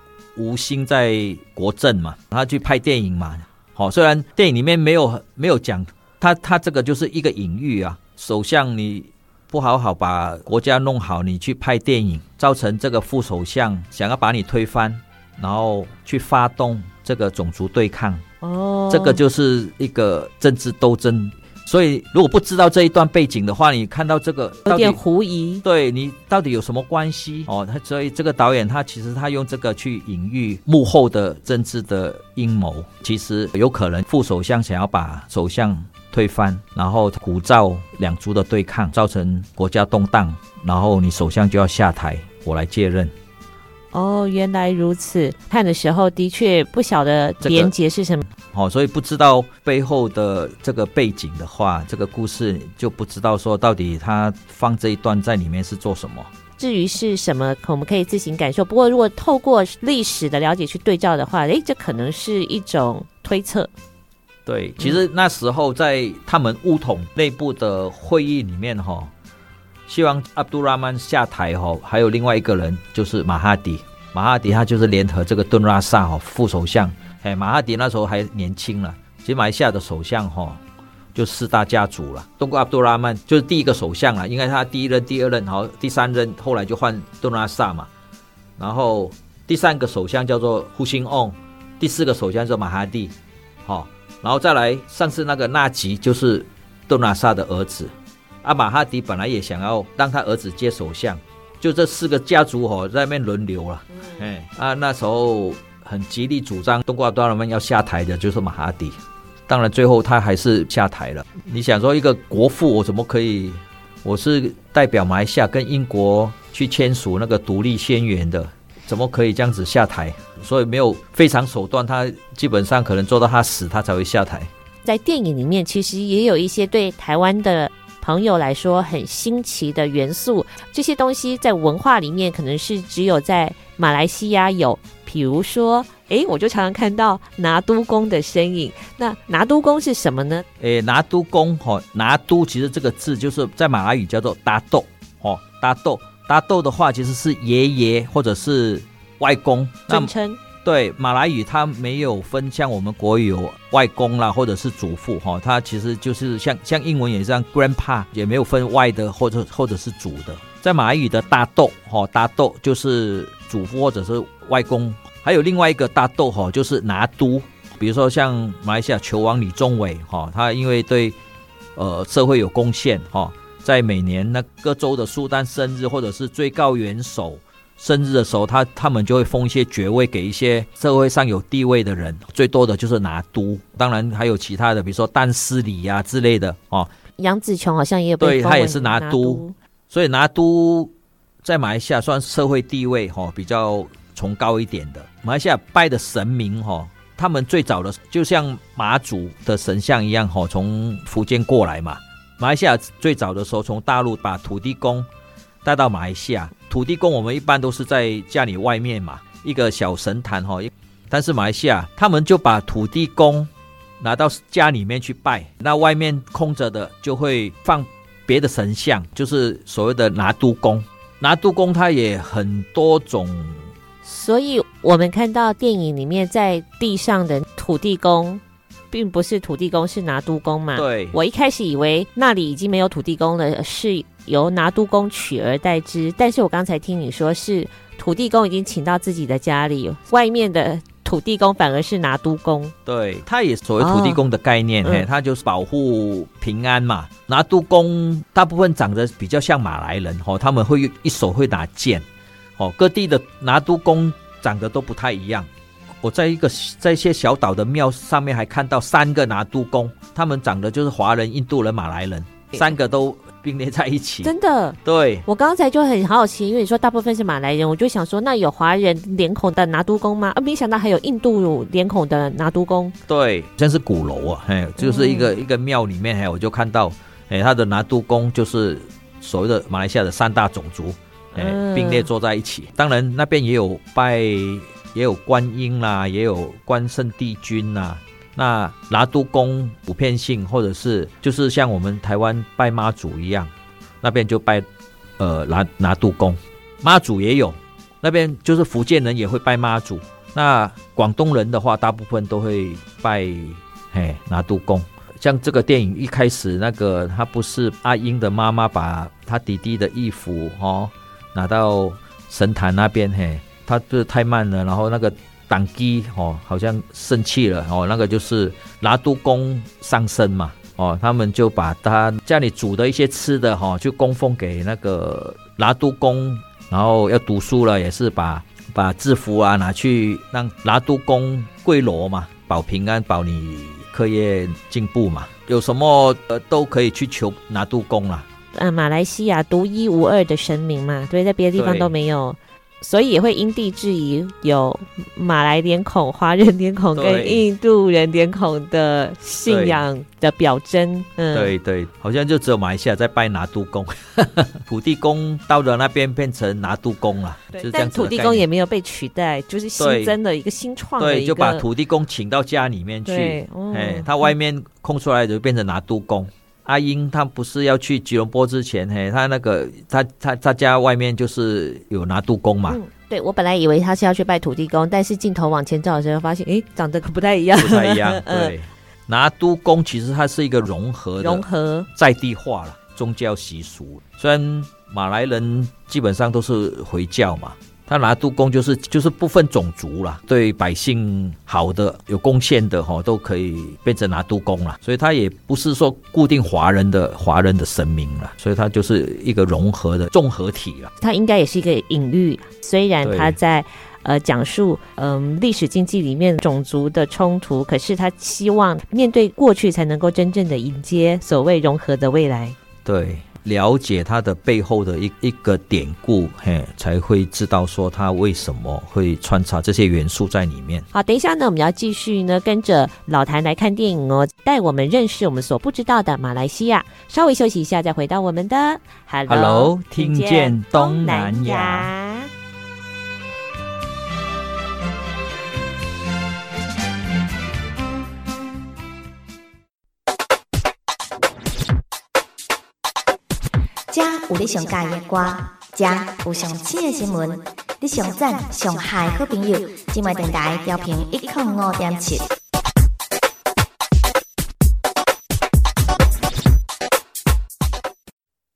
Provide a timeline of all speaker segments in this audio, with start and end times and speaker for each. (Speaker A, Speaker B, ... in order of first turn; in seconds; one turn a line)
Speaker A: 0.4-18.2
Speaker B: 18.4-19.2
Speaker A: 18.9-25.0
Speaker B: 24.7-25.6
Speaker A: 25.6-43.1
Speaker B: 43.9-48.3
Speaker A: 47.4-47.7
Speaker A: 48.4-56.3
Speaker B: 56.6-63.7
Speaker A: 64.5-69.1
Speaker A: 69.9-80.6
Speaker A: 81.2-87.9
Speaker A: 88.6-124.5
Speaker B: 124.8-140.4
Speaker A: 140.6-171.2
Speaker B: 149.9-150.4
Speaker A: 171.8-186.9
Speaker B: 187.2-189.6
Speaker A: 188.2-190.9
Speaker A: 191.4-205.1
Speaker A: 205.6-223.7
Speaker B: 224.0-242.7
Speaker A: 230.8-231.2
Speaker A: 242.9-252.1
Speaker B: 243.8-244.2
Speaker A: 252.6-255.5
Speaker A: 256.0-264.3
Speaker B: 264.2-273.0
Speaker A: 264.9-265.3
Speaker A: 273.1-293.5
Speaker B: 274.8-275.3
Speaker B: 281.3-282.1
Speaker A: 294.0-294.7
Speaker A: 295.2-338.3
Speaker B: 338.5-351.5
Speaker A: 341.6-341.9
Speaker A: 346.9-347.4
Speaker A: 349.5-349.9
Speaker A: 351.3-358.5
Speaker B: 357.5-361.6
Speaker A: 359.8-360.1
Speaker A: 361.0-372.8
Speaker B: 363.1-364.3
Speaker B: 372.7-378.5
Speaker A: 377.6-400.9
Speaker B: 381.2-381.9
Speaker B: 401.0-412.6
Speaker A: 403.0-403.4
Speaker A: 412.9-420.9
Speaker B: 420.9-432.3
Speaker A: 429.3-431.9
Speaker C: 443.9-452.3